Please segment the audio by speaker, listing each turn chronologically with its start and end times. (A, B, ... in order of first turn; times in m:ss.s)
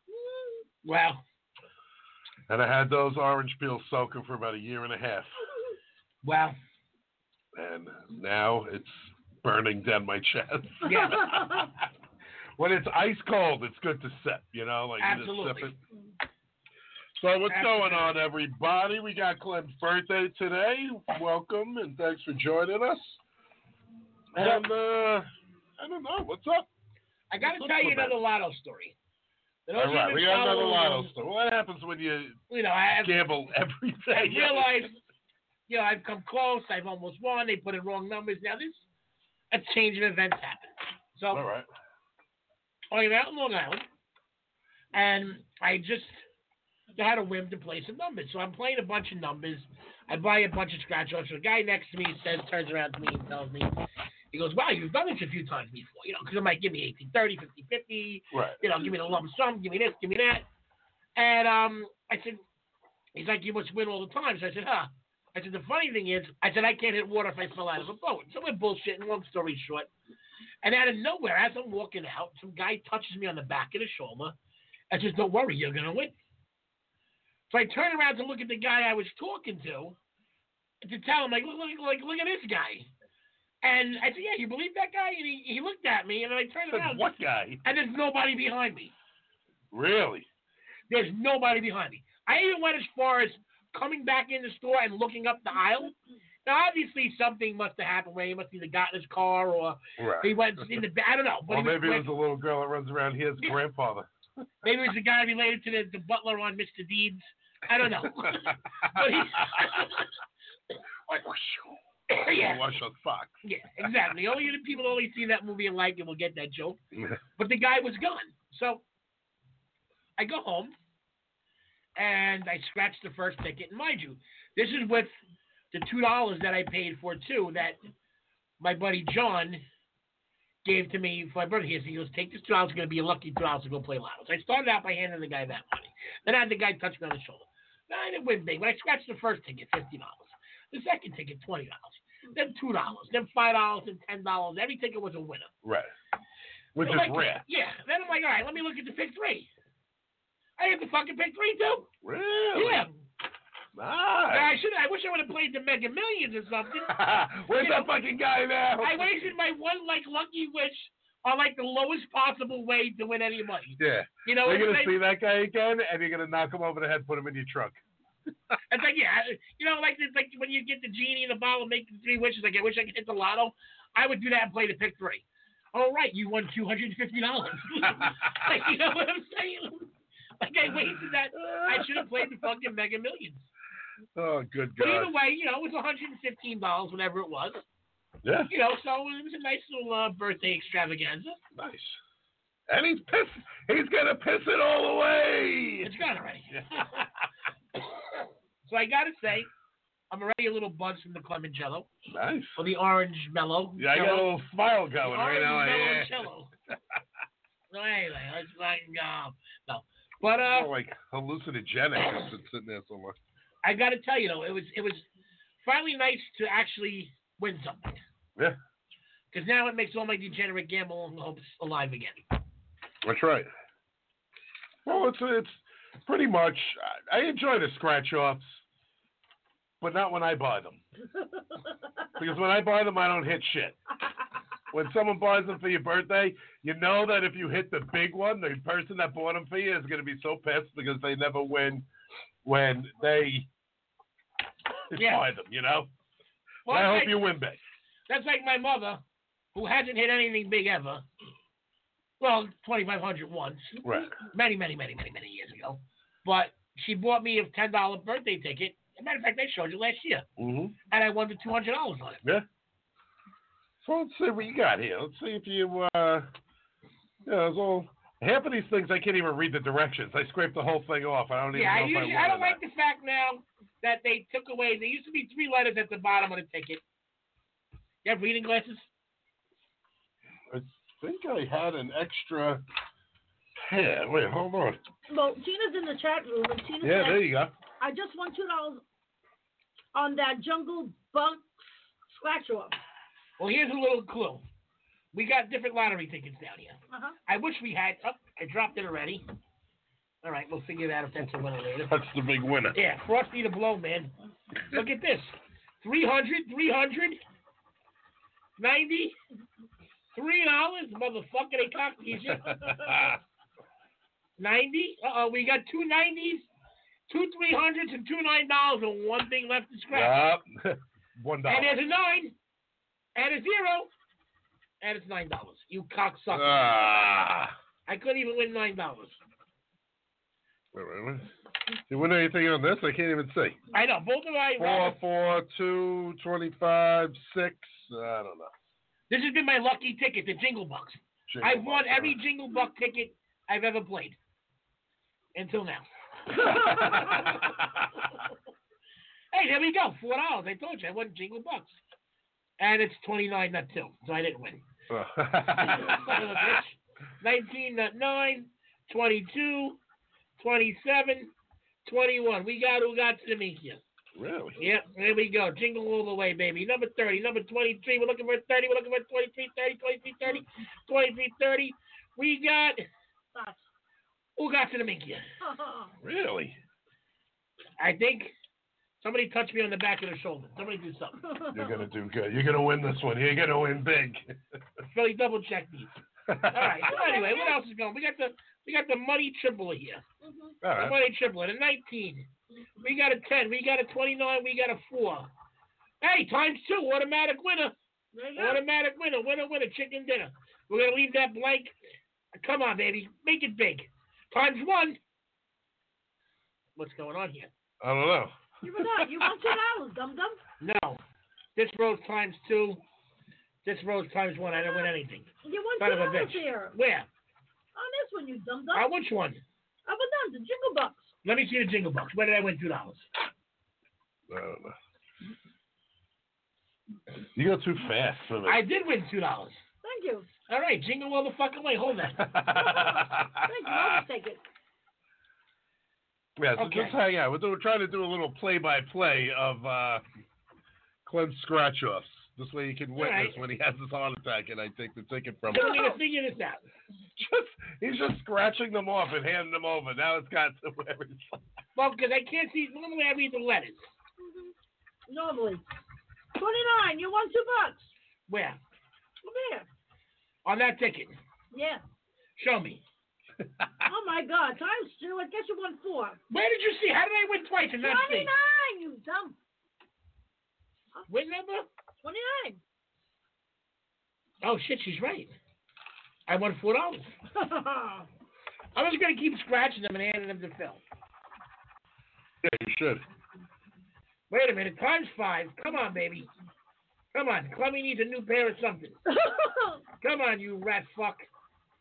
0:00.1-0:00.6 A
0:00.8-0:01.2 B
0:02.5-0:05.3 C
0:06.2-0:06.6 B
0:07.5-0:11.8 C
0:10.8-0:11.3 B
0:10.9-0:11.6 A
0:12.6-0:15.8 C
0:15.0-0:15.7 B
0:17.2-0:23.2 C
0:17.5-0:18.1 B
0:24.3-0:25.3 C
0:24.4-0:24.6 B
0:25.8-0:26.7 C
0:27.3-0:28.9 B
0:27.4-0:28.2 C
0:29.6-0:31.1 B
0:29.7-0:32.4 C
0:32.5-0:33.2 B
0:33.0-0:34.9 C
0:34.1-0:35.0 B
0:35.7-0:38.8 B
0:39.5-0:41.4 B
0:41.3-0:41.7 C
0:42.9-0:43.8 B
0:44.9-0:46.2 B
0:46.9-0:53.7 B
0:54.3-1:00.4 B
0:58.3-0:58.6 C
1:01.2-1:02.4 B
1:03.1-1:09.9 B
1:10.6-1:14.4 B
1:14.9-1:16.1 B
1:17.5-1:20.0 B
1:20.8-1:22.9 B
1:23.6-1:27.1 B
1:26.7-1:27.6 C
1:27.6-1:28.9 B
1:29.7-1:30.2 C
1:30.9-1:35.9 B
1:36.4-1:42.1 B
1:40.0-1:40.3 C
1:41.5-1:44.1 C
1:44.6-1:50.0 B
1:48.0-1:48.6 C
1:51.1-1:51.6 B
1:52.1-1:52.6 B
1:52.2-1:53.9 C
1:53.4-1:56.8 B
1:56.9-1:57.2 C
1:57.4-1:58.8 B
2:00.2-2:00.7 B
2:02.0-2:05.1 B
2:05.7-2:07.8 B
2:08.6-2:09.6 B
2:10.6-2:25.5 B
2:25.6-2:25.9 C
2:26.7-2:27.4 C
2:26.8-2:29.5 B
2:30.6-2:31.9 B
2:32.0-2:32.9 C
2:32.5-2:32.9 B
2:33.7-2:34.5 C
2:34.3-2:37.9 B
2:36.9-2:39.3 C
2:38.8-2:45.0 B
2:43.8-2:47.8 C
2:48.7-3:03.4 B
3:01.4-3:02.2 C
3:04.1-3:05.1 C
3:04.8-3:07.6 B
3:08.2-3:08.5 C
3:08.5-3:11.4 B
3:11.5-3:12.0 C
3:12.7-3:15.9 C
3:15.8-3:16.9 B
3:16.5-3:17.1 C
3:18.6-3:19.5 B
3:20.1-3:21.9 B
3:22.1-3:22.6 C
3:22.6-3:24.3 B
3:23.8-3:26.7 C
3:25.0-3:26.5 B
3:27.7-3:30.7 B
3:30.3-3:33.2 C
3:33.6-3:35.0 B
3:35.6-3:38.0 B
3:39.3-3:42.2 B
3:43.0-3:43.5 C
3:44.8-3:48.6 C
3:49.8-3:50.8 C
3:52.2-3:53.8 C
3:54.7-4:01.8 C
4:02.4-4:03.5 C
4:04.9-4:05.9 C
4:04.9-4:05.2 B
4:06.6-4:07.3 B
4:06.7-4:07.6 C
4:08.1-4:09.0 B
4:09.5-4:11.0 B
4:12.2-4:20.2 B
4:13.8-4:14.1 C
4:20.4-4:20.7 C
4:20.9-4:22.2 B
4:23.8-4:26.3 C
4:27.2-4:32.6 C
4:31.5-4:36.8 B
4:38.0-4:38.9 B
4:40.5-4:42.6 C
4:43.6-4:44.8 C
4:45.1-4:47.3 A
4:46.8-4:47.5 C
4:47.8-4:48.8 A
4:49.9-4:51.5 A
4:52.1-4:52.8 A
4:53.4-4:54.4 B
4:55.1-4:59.2 B
4:56.9-4:57.2 A
5:00.2-5:02.0 B
5:01.9-5:02.8 C
5:02.7-5:04.1 B
5:04.7-5:07.2 B
5:08.6-5:09.2 B
5:10.1-5:13.0 B
5:12.3-5:13.2 C
5:14.4-5:16.4 B
5:17.1-5:20.3 B
5:19.9-5:21.8 C
5:21.5-5:22.3 B
5:23.2-5:23.9 B
5:24.8-5:27.0 B
5:26.3-5:27.5 C
5:27.9-5:29.2 B
5:30.7-5:31.3 C
5:31.9-5:33.6 C
5:33.7-5:35.0 B
5:34.6-5:38.5 C
5:39.1-5:44.2 B
5:41.3-5:42.2 C
5:45.3-5:45.9 B
5:46.4-5:47.4 B
5:46.4-5:48.0 C
5:49.3-5:51.8 B
5:52.6-5:54.6 B
5:54.9-5:56.6 C
5:55.6-5:59.8 B
6:00.4-6:01.3 B
6:01.8-6:03.8 B
6:04.1-6:04.6 C
6:04.6-6:12.9 B
6:13.3-6:13.6 A
6:14.4-6:15.2 B
6:15.4-6:15.9 A
6:16.0-6:16.6 C
6:17.8-6:18.3 B
6:19.0-6:21.2 B
6:21.3-6:21.7 A
6:21.5-6:24.3 C
6:24.9-6:26.0 B
6:26.3-6:26.9 C
6:26.5-6:30.0 B
6:26.9-6:27.6 A
6:30.2-6:30.6 A
6:30.6-6:31.0 C
6:30.7-6:32.3 B
6:32.8-6:35.3 B
6:36.0-6:37.7 B
6:38.1-6:38.6 A
6:38.4-6:41.7 B
6:42.3-6:45.0 B
6:46.8-6:47.5 B
6:47.8-6:49.2 C
6:48.6-6:50.4 A
6:50.6-6:51.0 B
6:51.6-6:52.8 B
6:53.6-6:57.1 B
6:54.6-6:54.9 A
6:55.4-6:56.7 A
6:57.7-6:58.9 A
6:58.7-6:59.4 B
6:59.8-7:01.1 A
7:01.2-7:03.1 B
7:04.3-7:04.7 C
7:07.3-7:08.6 C
7:08.4-7:09.6 B
7:09.8-7:10.3 A
7:10.5-7:12.3 B
7:12.2-7:14.0 C
7:12.5-7:14.4 A
7:16.4-7:20.0 C
7:16.6-7:17.0 B
7:21.0-7:25.8 C
7:23.0-7:23.4 B
7:25.5-7:26.6 B
7:25.5-7:26.0 A
7:27.2-7:31.4 C
7:31.8-7:33.9 B
7:34.2-7:34.5 A
7:35.1-7:35.6 A
7:36.4-7:37.9 A
7:38.3-7:38.6 B
7:39.2-7:39.6 A
7:40.4-7:41.2 B
7:41.5-7:41.8 A
7:42.4-7:42.8 B
7:43.8-7:46.2 A
7:46.3-7:48.3 B
7:47.8-7:49.4 A
7:51.1-7:51.7 B
7:52.0-7:52.6 A
7:54.4-7:55.3 B
7:56.3-7:57.1 B
7:57.4-7:58.0 A
7:58.7-8:00.8 B
8:02.4-8:03.0 C
8:04.3-8:06.3 B
8:07.1-8:09.0 B
8:09.1-8:09.8 A
8:10.0-8:11.3 B